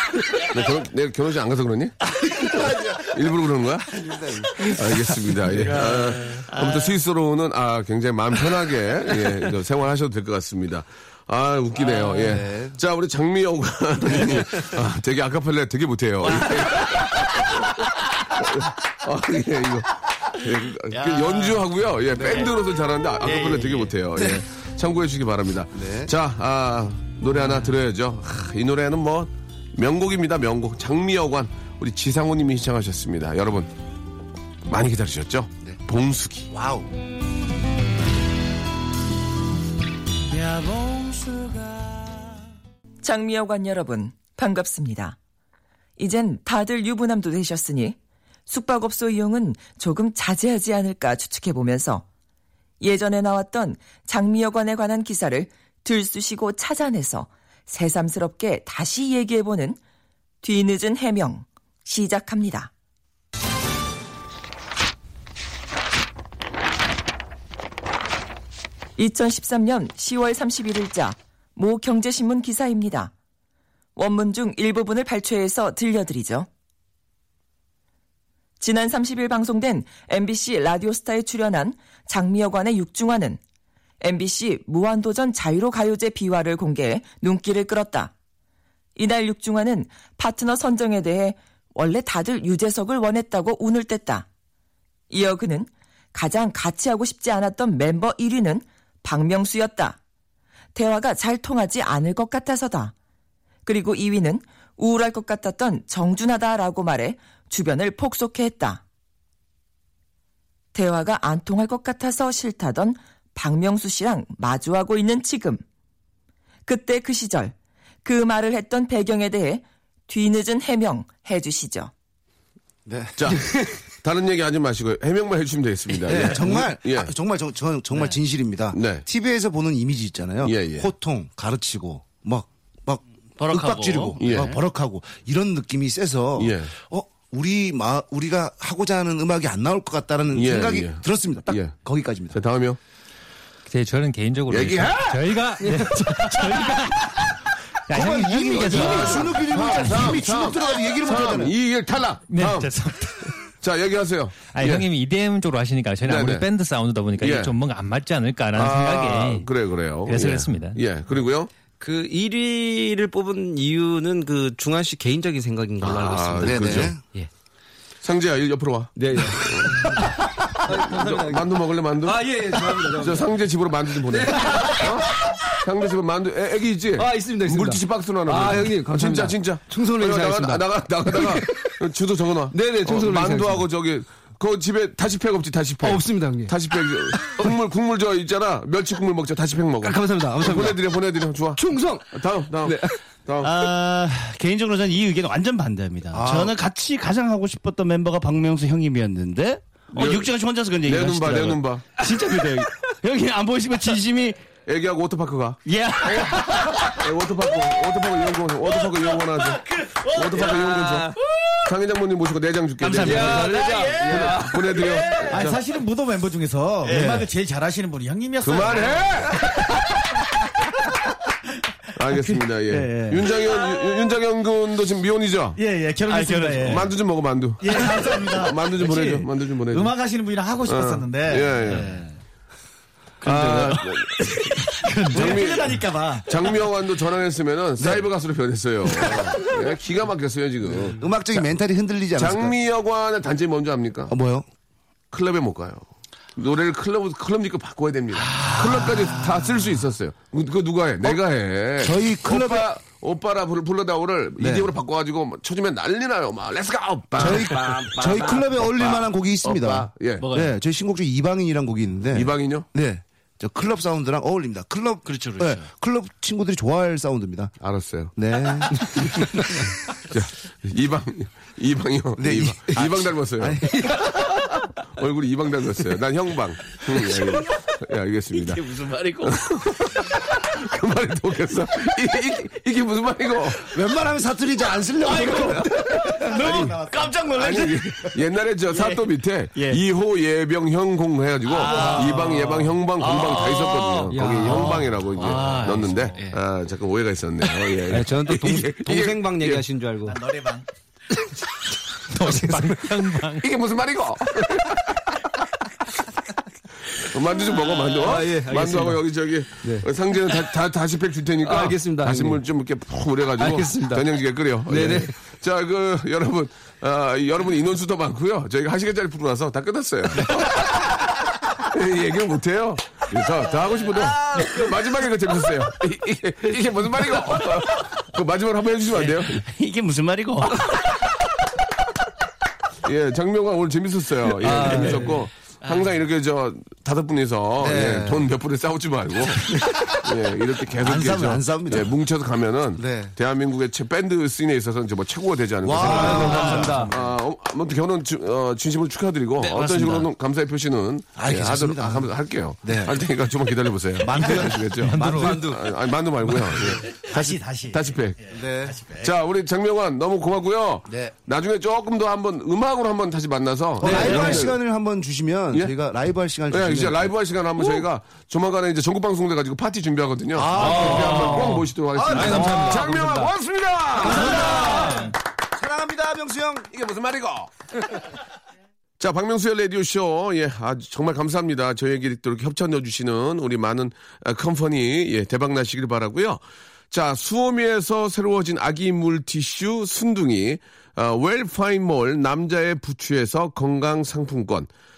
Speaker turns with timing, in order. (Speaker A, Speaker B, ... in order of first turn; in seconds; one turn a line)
Speaker A: 0.4-1.9
Speaker B: 2.2-3.3
Speaker A: 3.1-3.9
Speaker B: 3.9-5.7
Speaker A: 4.6-33.7
Speaker C: 5.6-6.4
Speaker C: 11.8-12.3
Speaker B: 12.3-12.8
Speaker C: 20.9-21.6
Speaker C: 23.3-23.8
Speaker B: 24.1-24.4
Speaker B: 25.7-26.1
Speaker A: 34.6-36.5
Speaker B: 36.5-36.9
Speaker C: 40.3-42.5
Speaker D: 43.0-45.2
Speaker D: 46.0-48.0
Speaker D: 48.5-52.0
Speaker D: 52.8-59.8
Speaker D: 60.4-62.7
Speaker D: 69.0-73.1
Speaker D: 74.0-76.5
Speaker D: 78.6-83.4
Speaker D: 84.0-88.1
Speaker D: 89.0-94.2
Speaker D: 95.1-100.0
Speaker D: 100.7-102.9
Speaker D: 103.7-108.8
Speaker D: 110.7-115.6
Speaker D: 116.7-117.5
Speaker D: 118.0-121.9
Speaker B: 122.9-123.4
Speaker A: 123.2-127.1
Speaker B: 126.1-142.4
Speaker A: 128.7-129.0
Speaker A: 130.4-130.9
Speaker C: 133.4-134.6
Speaker A: 134.2-134.6
Speaker A: 136.4-136.7
Speaker A: 140.3-141.7
Speaker A: 142.3-142.8
Speaker E: 143.7-147.2
Speaker A: 144.5-145.3
Speaker B: 147.9-151.5
Speaker E: 147.9-149.4
Speaker A: 148.5-152.7
Speaker C: 148.7-149.3
Speaker E: 152.3-153.5
Speaker A: 153.6-154.9
Speaker E: 154.5-159.5
Speaker A: 156.0-156.5
Speaker A: 157.2-157.6
Speaker A: 158.5-161.5
Speaker E: 160.0-160.8
Speaker F: 161.8-167.3
Speaker A: 165.8-166.9
Speaker B: 166.4-167.0
Speaker A: 168.0-170.0
Speaker F: 168.9-170.1
Speaker F: 170.7-173.3
Speaker A: 170.7-172.3
Speaker A: 172.9-175.1
Speaker F: 174.1-174.8
Speaker A: 175.6-193.6
Speaker F: 177.0-181.5
Speaker C: 179.7-180.5
Speaker F: 182.5-183.7
Speaker F: 185.8-186.5
Speaker F: 187.2-187.5
Speaker F: 189.8-190.8
Speaker C: 190.2-190.7
Speaker F: 191.6-192.0
Speaker F: 192.6-193.0
Speaker C: 193.4-204.4
Speaker B: 196.1-196.5
Speaker A: 199.9-201.8
Speaker A: 204.7-205.6
Speaker C: 205.7-207.0
Speaker A: 206.8-211.1
Speaker C: 209.6-211.0
Speaker F: 210.3-211.1
Speaker A: 211.6-215.6
Speaker G: 212.8-213.3
Speaker F: 212.9-215.0
Speaker C: 213.0-215.2
Speaker G: 215.3-219.6
Speaker C: 216.9-217.2
Speaker A: 218.4-219.5
Speaker A: 221.9-225.6
Speaker G: 222.1-223.3
Speaker G: 225.6-226.9
Speaker C: 226.1-226.9
Speaker A: 226.6-229.9
Speaker G: 227.6-231.8
Speaker A: 230.6-232.0
Speaker C: 231.7-232.0
Speaker A: 233.2-241.1
Speaker C: 233.2-235.4
Speaker G: 235.0-236.3
Speaker B: 237.8-238.1
Speaker B: 240.7-242.5
Speaker A: 242.2-244.1
Speaker B: 244.1-244.4
Speaker A: 245.1-245.8
Speaker A: 246.4-260.2
Speaker B: 251.8-252.7
Speaker B: 254.4-254.7
Speaker B: 257.2-267.5
Speaker C: 260.2-260.6
Speaker A: 262.1-262.7
Speaker C: 265.0-265.7
Speaker A: 267.6-268.1
Speaker B: 268.1-269.2
Speaker A: 268.9-269.2
Speaker A: 270.0-273.6
Speaker B: 272.2-274.2
Speaker A: 274.9-283.7
Speaker C: 278.7-279.3
Speaker F: 278.8-279.3
Speaker B: 283.7-285.9
Speaker A: 285.5-299.6
Speaker G: 286.2-287.4
Speaker C: 286.3-287.7
Speaker C: 288.7-289.0
Speaker C: 291.5-296.4
Speaker G: 291.8-292.4
Speaker F: 294.1-296.2
Speaker F: 297.9-300.2
Speaker G: 300.0-300.7
Speaker E: 302.1-303.5
Speaker A: 303.4-305.2
Speaker A: 306.9-329.4
Speaker F: 307.5-309.0
Speaker F: 311.4-312.4
Speaker F: 313.4-314.1
Speaker F: 314.7-315.1
Speaker C: 328.9-330.6
Speaker A: 330.5-330.9
Speaker A: 332.8-358.3
Speaker C: 334.4-335.1
Speaker F: 334.4-335.1
Speaker B: 337.6-338.3
Speaker B: 340.8-341.9
Speaker B: 342.8-343.1
Speaker B: 345.6-346.9
Speaker F: 345.8-346.9
Speaker C: 345.9-346.8
Speaker C: 349.4-350.1
Speaker B: 351.1-353.0
Speaker E: 354.7-355.4
Speaker C: 355.0-355.5
Speaker G: 356.9-359.1
Speaker B: 358.3-358.8
Speaker A: 359.0-364.6
Speaker B: 360.9-361.1
Speaker B: 363.8-367.1
Speaker F: 363.8-364.4
Speaker C: 364.0-364.3
Speaker A: 366.5-375.0
Speaker B: 370.3-372.8
Speaker C: 370.6-371.6
Speaker F: 370.6-370.9
Speaker F: 372.2-373.2
Speaker C: 372.3-372.9
Speaker E: 372.4-372.8
Speaker B: 374.0-376.7
Speaker A: 376.7-378.0
Speaker A: 379.0-394.7